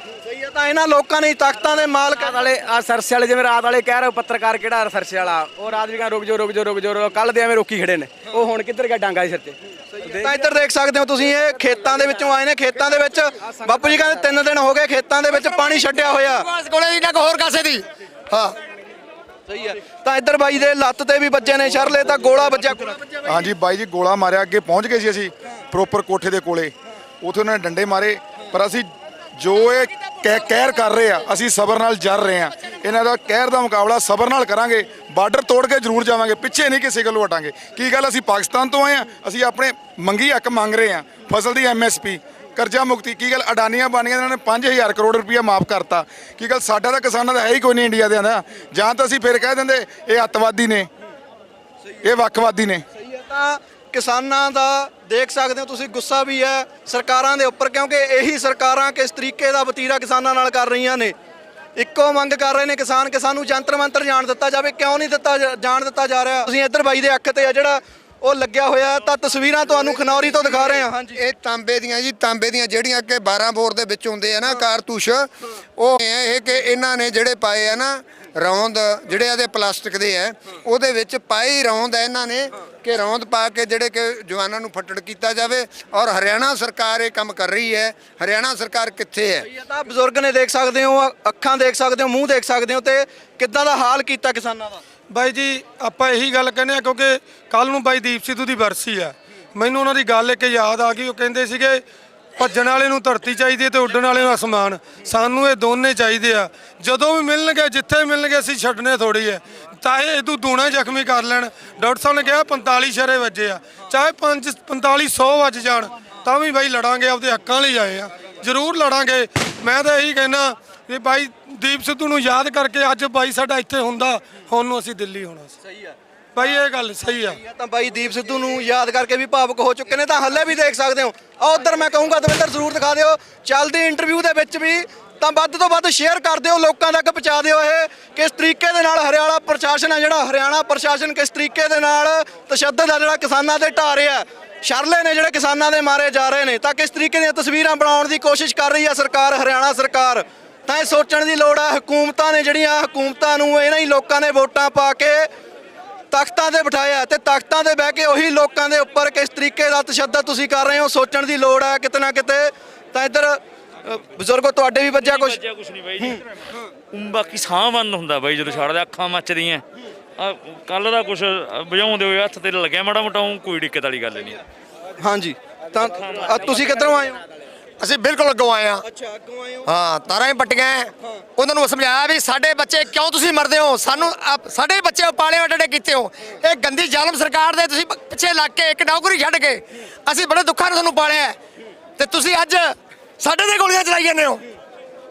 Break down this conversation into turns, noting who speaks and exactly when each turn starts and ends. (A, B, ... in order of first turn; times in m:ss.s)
0:00.2-0:02.4 A
0:02.3-0:09.6 B
0:10.0-0:16.4 A
0:15.9-0:18.6 C
0:19.5-0:23.2 A
0:23.3-0:50.9 D
0:52.0-0:52.8 D
0:53.0-1:01.1 A
1:01.8-1:11.2 A
1:11.1-1:29.5 E
1:29.4-1:34.8 A
1:35.1-1:41.8 F
1:42.4-2:05.5 F
2:05.6-2:05.9 A
2:06.3-2:07.4 F
2:07.2-2:35.3 A
2:36.1-2:45.4 A
2:45.0-2:46.2 G
2:46.9-2:49.6 G
2:50.2-2:54.4 G
2:55.0-2:57.2 A
2:57.8-2:58.8 C
2:58.8-2:59.7 A
2:59.6-3:11.4 C
3:12.0-3:14.4 C